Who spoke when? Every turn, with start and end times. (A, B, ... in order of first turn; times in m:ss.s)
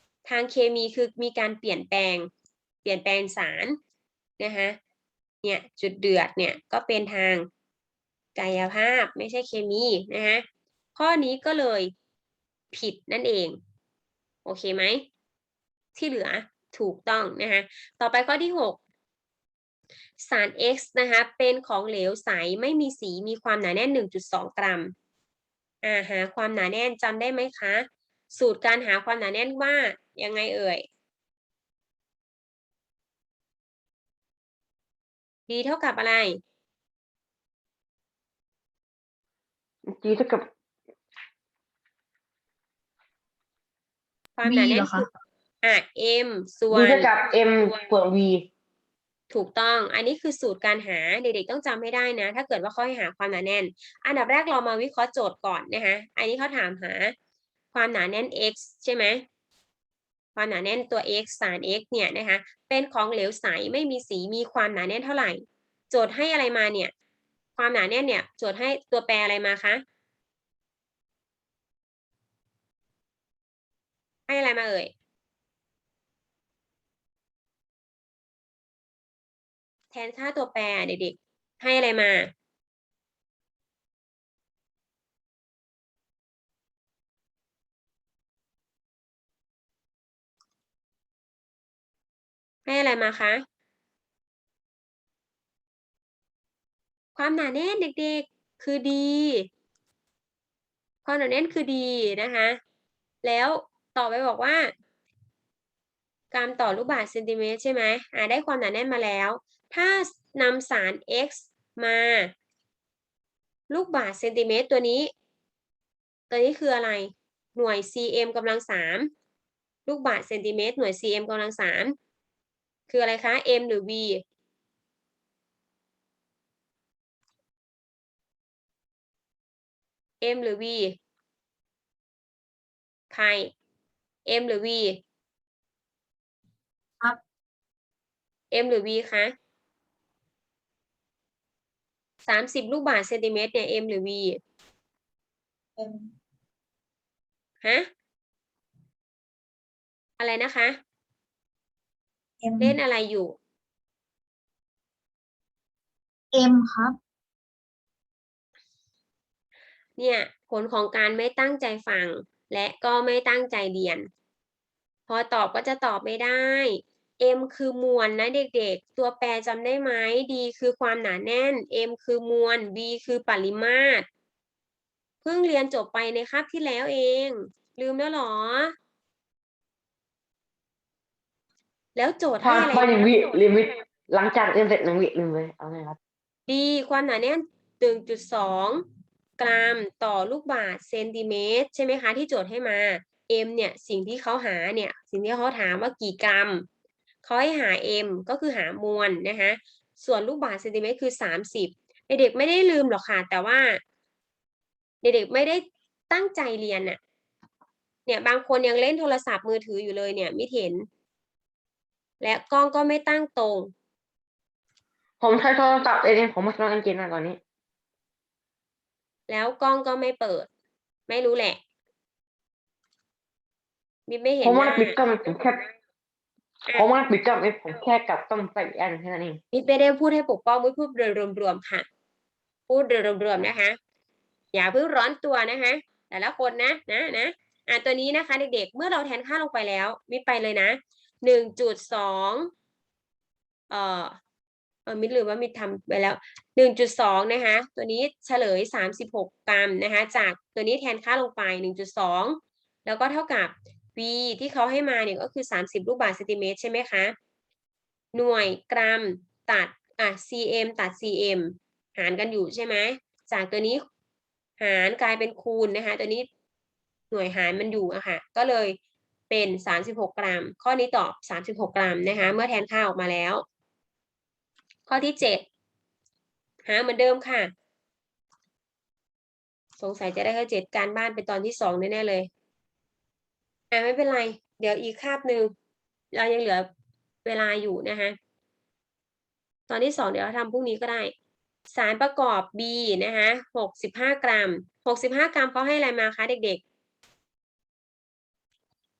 0:00.2-0:02.3 A
0:02.8-0:03.8 A
0:04.4-0:04.8 A
0:05.4-0:07.5 A
0:08.3-0:11.9 A
0:12.7-0:13.6 A
0:14.4-0:15.0 A
0:16.0-0:18.8 A
0:20.2-0:24.9 A
0:25.8-0:30.8 A
0:35.5-0:36.4 A
0:39.8-0:40.5 B
0:44.4-0:45.1 A
0:44.4-0:45.1 C
0:45.6-0:47.1 A
0:46.7-0:48.5 B
0:49.3-0:57.1 A
0:57.7-0:59.2 A
1:00.4-1:06.9 A
1:07.6-1:09.8 A
1:14.3-1:14.9 A
1:19.9-1:22.3 A
1:32.6-1:33.4 A
1:37.2-1:39.5 A
1:41.0-1:42.6 A
1:43.2-1:44.7 A
1:46.3-1:52.3 A
1:53.7-1:55.1 A
1:56.3-1:59.1 A
1:59.8-2:01.9 A
2:02.9-2:04.2 A
2:10.2-2:11.0 A
2:13.1-2:13.5 A
2:14.2-2:15.0 A
2:18.5-2:19.3 A
2:22.2-2:24.4 A
2:25.8-2:26.1 C
2:27.6-2:27.9 A
2:30.2-2:30.8 A
2:32.4-2:32.8 C
2:32.6-2:33.3 A
2:36.3-2:37.0 C
2:40.0-2:44.1 A
2:45.1-2:54.0 A
2:55.2-2:58.7 A
3:01.9-3:03.0 A
3:02.4-3:06.0 B
3:06.5-3:08.8 A
3:09.4-3:16.6 A
3:17.2-3:23.8 A
3:25.0-3:27.0 A
3:28.0-3:30.9 A
3:32.2-3:33.7 A
3:35.2-3:37.4 B
3:39.3-3:40.5 A
3:41.1-3:41.6 A
3:44.1-3:44.9 A
3:44.4-3:45.7 B
3:46.7-3:49.4 B
3:49.5-3:51.8 A
3:52.7-3:53.8 A
3:54.5-4:02.5 A
4:03.7-4:04.2 A
4:04.9-4:17.1 A
4:18.1-4:23.8 A
4:24.6-4:26.3 A
4:27.1-4:28.8 A
4:29.3-4:33.4 A
4:34.9-4:35.4 A
4:36.6-4:37.5 A
4:39.8-4:42.3 A
4:43.7-4:45.5 A
4:46.1-4:46.7 A
4:47.2-4:48.2 A
4:49.7-4:51.1 A
4:51.7-4:56.6 A